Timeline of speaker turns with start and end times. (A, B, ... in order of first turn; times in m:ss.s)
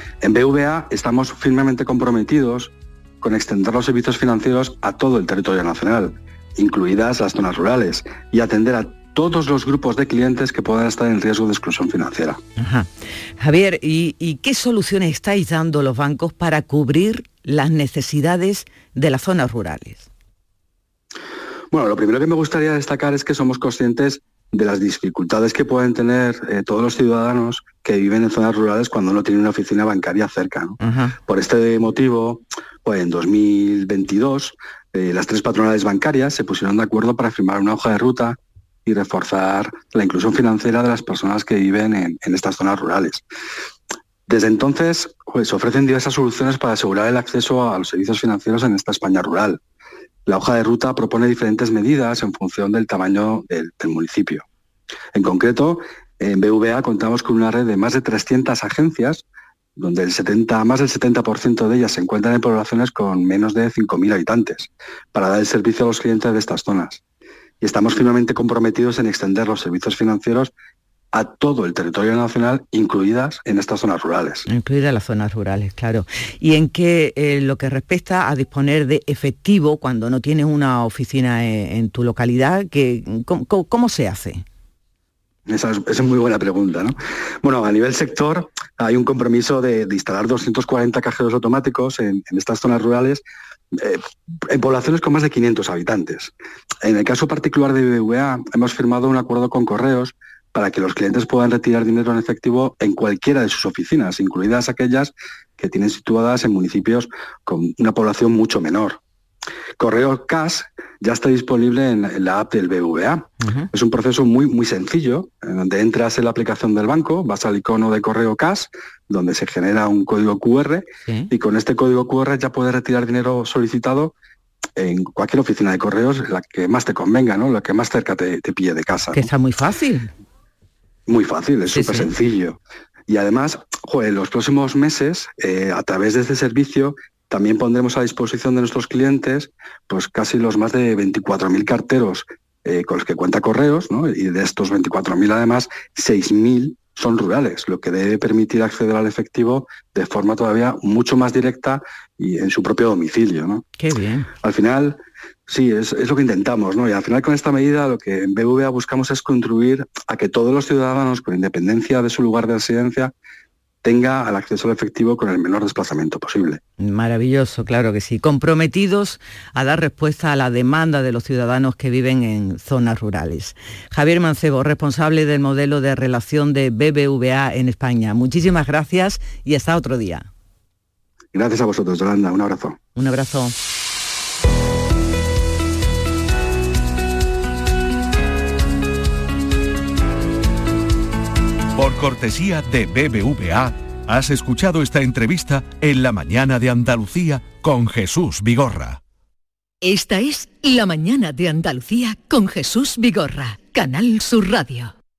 0:00.2-0:12.4 A
0:12.6-0:20.1 B
0:21.7-0:43.2 A
0:30.8-0:31.1 B
0:44.3-0:49.6 A
0:50.2-0:54.4 A
0:55.1-0:59.2 A
0:59.8-1:07.0 A
1:07.6-1:10.5 A
1:11.1-1:14.4 A
1:14.5-1:24.4 B
1:25.5-1:33.2 A
1:33.8-1:36.3 A
1:36.8-1:49.0 A
1:49.8-2:04.1 A
1:53.4-1:53.6 B
2:04.8-2:09.2 A
2:09.1-2:10.1 B
2:11.1-2:33.6 A
2:11.7-2:12.1 B
2:33.8-2:34.3 B
2:34.4-2:43.1 A
2:43.8-2:46.6 A
2:46.8-3:00.3 B
3:01.3-3:02.8 A
3:03.0-3:03.5 B
3:11.8-3:19.0 C
3:19.8-3:24.9 D